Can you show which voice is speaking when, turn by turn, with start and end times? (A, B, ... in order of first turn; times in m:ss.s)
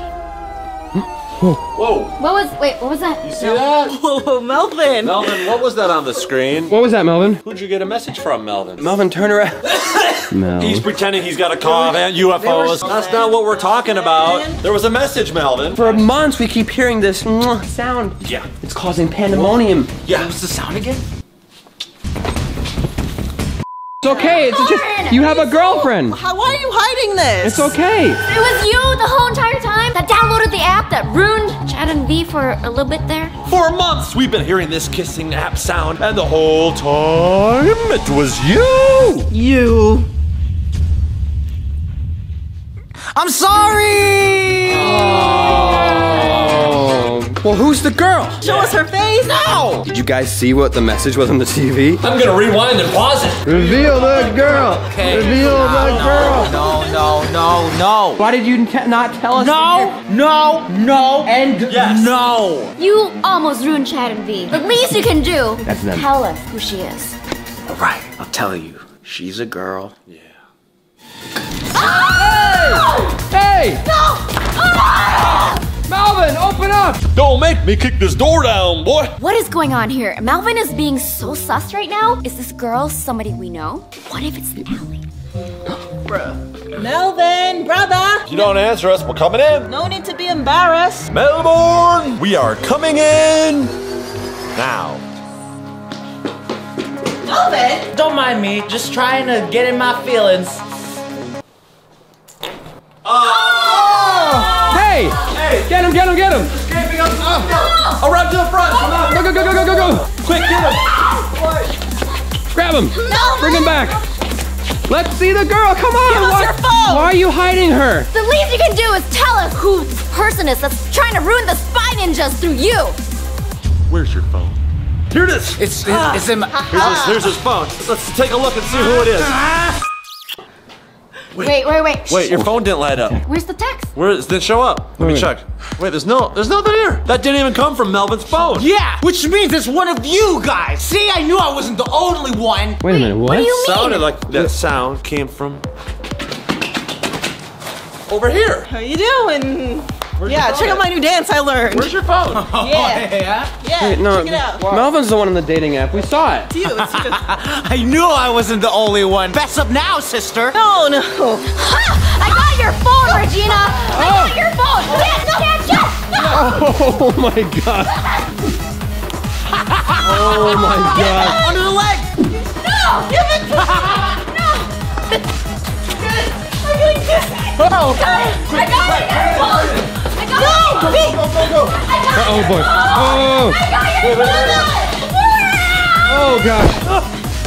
0:01.0-0:01.6 A
0:01.7-0:02.1 B
0:02.2-0:03.3 C
0:03.2-0:04.0 B
0:03.8-0:05.3 D
0:05.0-0:06.7 B
0:06.7-0:07.4 A
0:07.4-0:08.9 B
0:08.8-0:09.6 A
0:09.7-0:16.0 B
0:10.3-0:10.8 A
0:12.4-0:13.1 E
0:13.0-0:14.6 D
0:15.7-0:19.9 A
0:18.2-0:18.5 B
0:19.3-0:21.0 E
0:20.0-0:20.3 B
0:24.0-0:26.2 A
0:24.0-0:25.9 C
0:26.2-0:27.6 D
0:27.4-0:28.2 A
0:28.2-0:33.3 C
0:33.5-0:39.3 B
0:39.3-0:40.0 D
0:43.1-0:46.5 E
0:44.7-0:48.4 A
0:48.4-0:49.3 D
0:49.2-0:49.9 E
0:49.8-0:52.0 A
0:52.0-0:54.0 B
0:53.4-0:56.6 A
0:54.6-0:58.2 E
0:54.9-0:55.7 B
0:58.2-1:00.0 A
0:59.3-1:02.7 E
1:01.7-1:02.2 B
1:02.8-1:07.2 C
1:05.6-1:06.1 A
1:07.7-1:09.9 E
1:10.1-1:10.4 B
1:11.7-1:13.1 C
1:11.8-1:13.8 A
1:13.8-1:15.6 C
1:15.2-1:17.0 A
1:17.1-1:19.1 B
1:19.2-1:25.0 C
1:26.1-1:28.4 D
1:28.2-1:29.7 B
1:29.7-1:31.0 D
1:31.1-1:33.7 B
1:34.5-1:35.0 B
1:37.2-1:37.9 D
1:37.9-1:40.6 E
1:43.0-1:45.8 B
1:44.1-1:46.5 A
1:46.3-1:51.7 B
1:49.0-1:50.1 A
1:52.5-1:54.0 A
1:53.0-1:53.8 C
1:54.9-1:58.1 A
1:56.0-1:57.1 D
1:58.1-2:03.0 C
2:03.9-2:04.6 B
2:05.1-2:09.4 B
2:05.6-2:07.1 E
2:06.5-2:07.1 D
2:09.4-2:09.7 E
2:11.3-2:13.2 B
2:11.4-2:12.3 C
2:13.2-2:13.9 C
2:13.9-2:18.7 B
2:15.0-2:15.3 A
2:18.4-2:22.8 E
2:22.8-2:23.5 A
2:22.9-2:24.1 C
2:23.4-2:25.6 B
2:28.1-2:28.7 B
2:28.7-2:31.9 D
2:30.2-2:30.9 B
2:31.7-2:32.5 B
2:32.3-2:33.5 E
2:32.6-2:33.0 D
2:33.6-2:34.6 D
2:33.8-2:36.5 A
2:36.7-2:40.6 E
2:40.6-2:41.4 D
2:41.5-2:46.3 C
2:43.9-2:44.3 A
2:46.1-2:48.1 A
2:50.0-2:51.4 A
2:50.0-2:52.1 E
2:51.2-2:51.5 C
2:52.5-2:53.1 C
2:53.1-2:53.6 D
2:54.1-2:54.7 C
2:56.0-2:57.5 D
2:57.6-2:58.0 E
2:57.8-3:01.1 C
2:58.5-2:59.8 B
3:00.7-3:01.8 B
3:01.7-3:06.2 C
3:02.1-3:03.6 A
3:04.0-3:04.7 B
3:06.0-3:06.8 A